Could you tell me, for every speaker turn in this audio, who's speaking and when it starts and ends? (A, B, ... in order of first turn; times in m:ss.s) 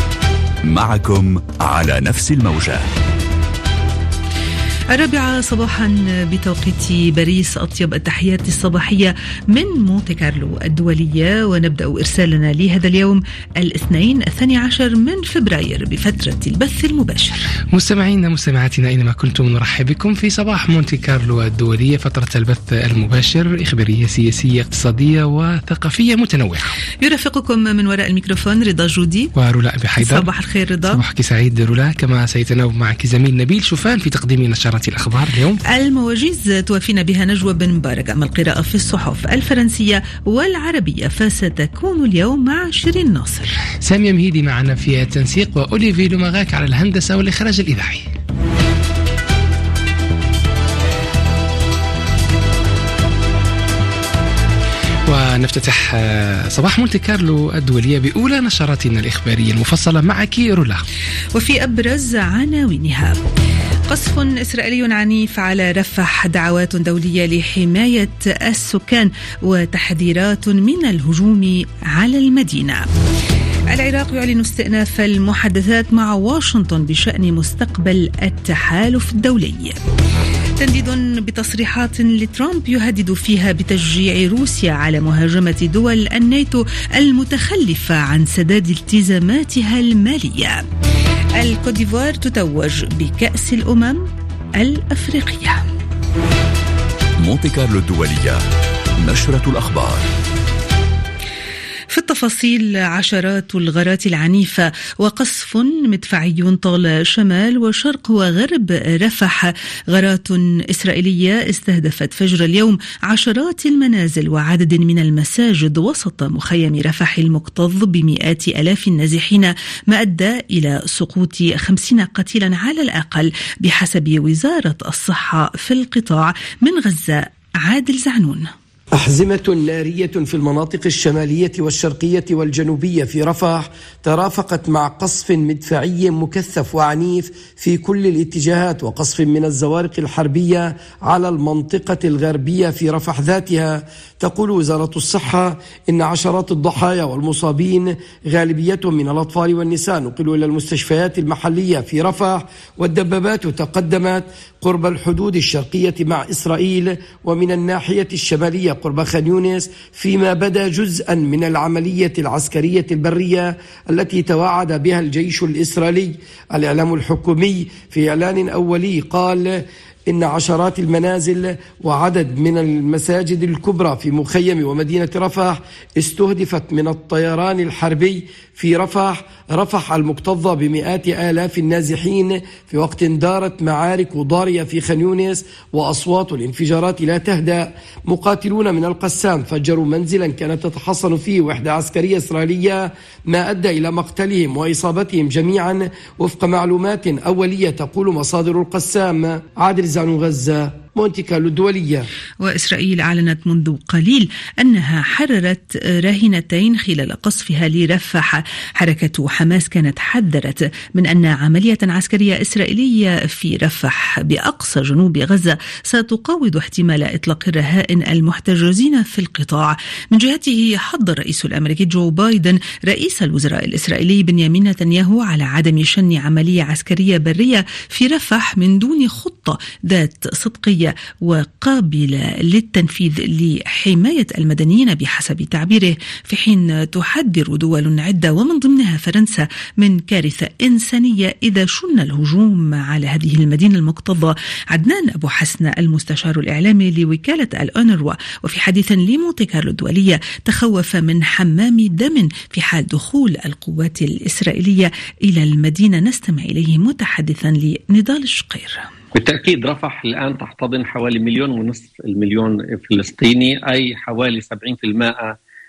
0:00.6-0:02.8 A
0:04.9-0:17.4 B
0:17.7-0:26.7 C
0:27.0-0:29.3 B
0:29.3-0:30.3 C
0:30.0-0:31.0 B
0:30.9-0:35.6 C
0:35.7-0:43.5 B
0:43.8-0:48.0 C
0:55.1-1:00.8 C
1:01.3-1:03.2 B
1:03.9-1:12.9 B
1:13.7-1:19.8 B
1:20.6-1:30.6 B
1:31.4-1:34.0 B
1:34.6-1:35.6 B
1:37.2-1:38.4 A
1:39.0-1:40.0 A
1:41.9-2:08.5 B
2:08.9-2:49.5 D
2:50.1-3:22.0 D
3:22.4-4:18.8 B
4:19.1-4:25.3 E